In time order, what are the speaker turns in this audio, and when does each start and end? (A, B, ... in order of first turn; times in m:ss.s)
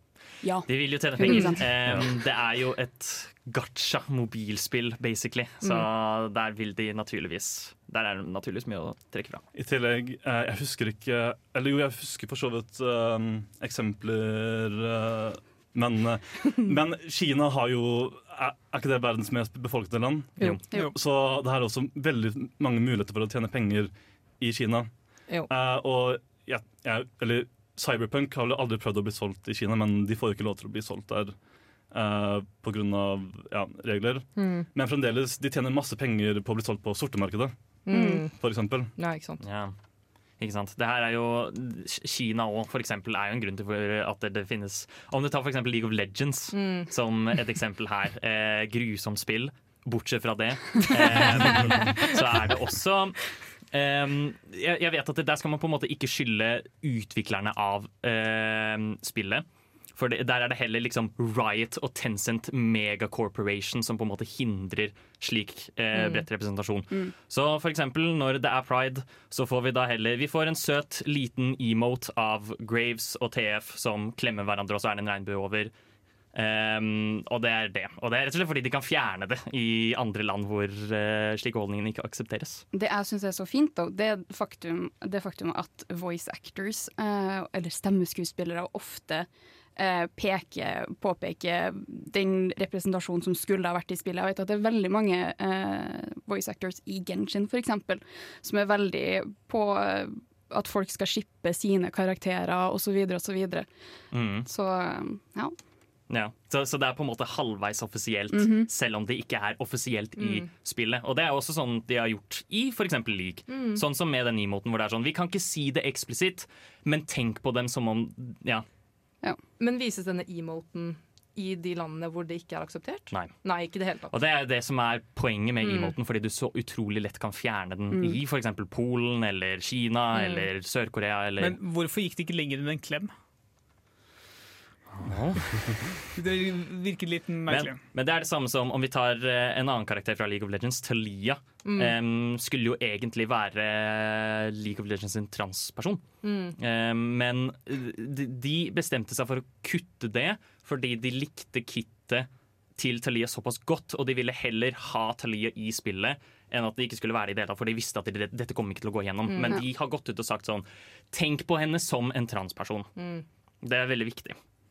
0:00.4-0:02.0 A
0:00.7-0:09.4 B
0:01.2-0:01.6 C
0:09.5-0:24.9 D
0:20.4-0:20.8 C
0:25.5-0:31.4 D
0:31.9-0:37.5 D
0:34.4-0:34.7 C
0:37.9-0:38.3 C
0:37.9-0:38.3 A
0:38.4-0:38.9 D
0:39.0-0:39.4 C
0:39.4-0:39.8 B
0:40.4-1:15.7 B
0:46.5-0:46.9 C
1:06.0-1:06.2 C
1:16.3-1:22.6 B
1:22.7-1:43.7 A
1:44.1-1:44.5 B
1:44.5-1:45.6 A
1:46.1-1:58.6 B
1:48.3-1:48.7 A
1:50.2-1:50.5 C
1:53.5-1:53.8 C
1:59.6-2:04.1 C
2:04.1-2:11.6 B
2:05.6-2:06.0 C
2:07.9-2:08.2 A
2:10.1-2:10.5 C
2:11.4-2:13.1 E
2:14.9-2:16.0 B
2:16.2-2:17.8 E
2:17.5-2:26.0 B
2:21.6-2:22.0 C
2:26.2-2:26.6 C
2:26.6-2:42.9 B
2:39.3-2:39.6 C
2:43.0-2:43.2 C
2:43.6-2:44.4 B